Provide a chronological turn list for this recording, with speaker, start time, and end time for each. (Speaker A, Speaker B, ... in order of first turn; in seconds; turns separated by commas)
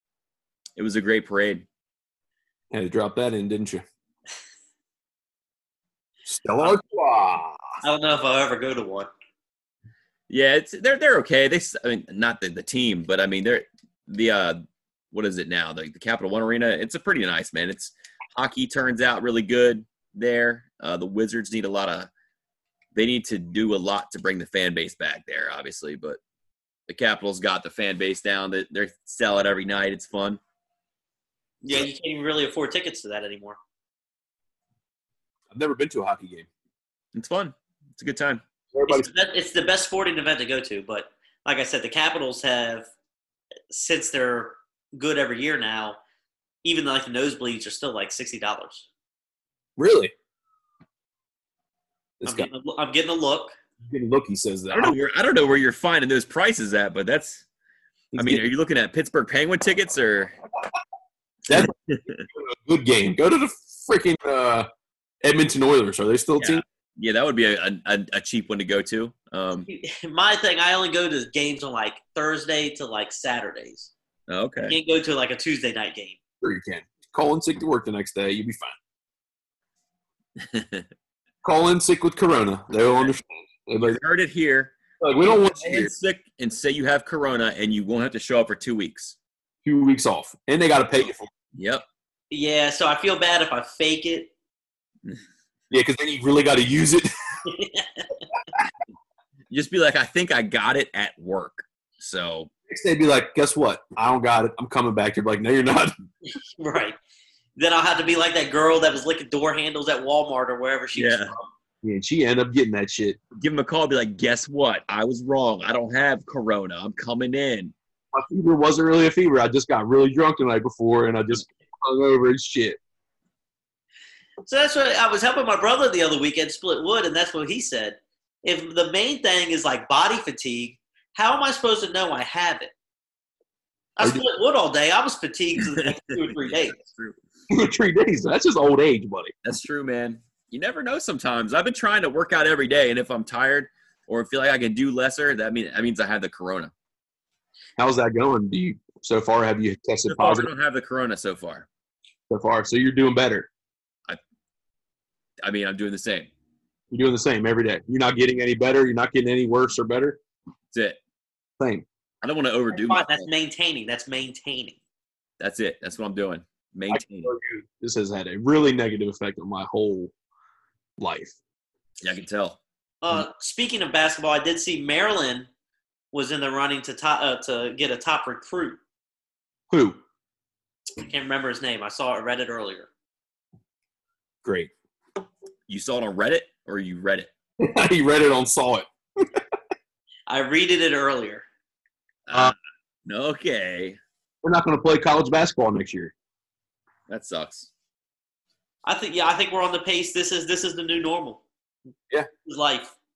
Speaker A: 0.8-1.6, Speaker B: 2.7-3.9, Speaker B: 6.3-7.7, Speaker C: 7.8-9.1, Speaker A: 10.3-22.1, Speaker A: 22.9-26.2, Speaker A: 26.9-30.4, Speaker C: 31.6-33.6, Speaker B: 35.5-36.5, Speaker A: 37.1-38.4, Speaker B: 38.7-39.1, Speaker C: 38.9-42.9, Speaker C: 43.7-46.0, Speaker C: 46.6-48.9, Speaker B: 49.8-50.1, Speaker B: 52.2-52.5, Speaker C: 52.3-53.5, Speaker B: 53.8-55.0, Speaker A: 54.7-57.5, Speaker B: 58.1-58.5, Speaker A: 58.2-60.4, Speaker B: 61.5-64.7, Speaker A: 61.5-62.2, Speaker B: 65.2-66.6, Speaker A: 66.4-69.7, Speaker C: 69.6-73.9, Speaker A: 74.3-74.8, Speaker C: 74.6-76.2, Speaker B: 76.4-78.8, Speaker A: 80.4-80.9, Speaker B: 81.4-84.0, Speaker A: 83.8-84.7, Speaker B: 85.0-85.9, Speaker A: 85.2-89.2, Speaker B: 89.7-91.3, Speaker A: 91.5-91.8, Speaker C: 92.3-94.3, Speaker B: 95.7-97.1, Speaker C: 97.5-98.1, Speaker A: 99.5-102.5, Speaker B: 102.7-105.9, Speaker C: 106.4-107.0, Speaker C: 107.6-111.5, Speaker A: 110.9-111.3, Speaker B: 111.8-113.2, Speaker A: 113.4-117.7, Speaker B: 118.1-122.8, Speaker C: 124.4-132.7, Speaker C: 134.0-136.8, Speaker B: 134.0-134.2, Speaker A: 135.6-137.2, Speaker B: 137.5-139.3, Speaker A: 139.4-146.7, Speaker B: 147.8-150.5, Speaker A: 150.1-151.7, Speaker B: 152.3-153.5, Speaker A: 155.4-156.3, Speaker B: 156.9-160.2, Speaker A: 160.7-161.0, Speaker B: 161.6-161.9, Speaker A: 162.2-163.3, Speaker C: 162.7-164.8, Speaker A: 165.4-167.3, Speaker B: 166.9-170.1, Speaker B: 171.0-171.4, Speaker A: 172.0-172.6, Speaker C: 173.0-175.5, Speaker C: 176.1-178.8, Speaker B: 179.7-180.0, Speaker C: 181.0-182.9, Speaker B: 184.4-184.7, Speaker A: 185.7-187.3, Speaker B: 187.6-189.4, Speaker C: 190.3-191.4, Speaker A: 192.3-194.0, Speaker B: 194.4-196.1, Speaker A: 197.1-197.7, Speaker C: 198.8-201.4, Speaker C: 202.4-202.9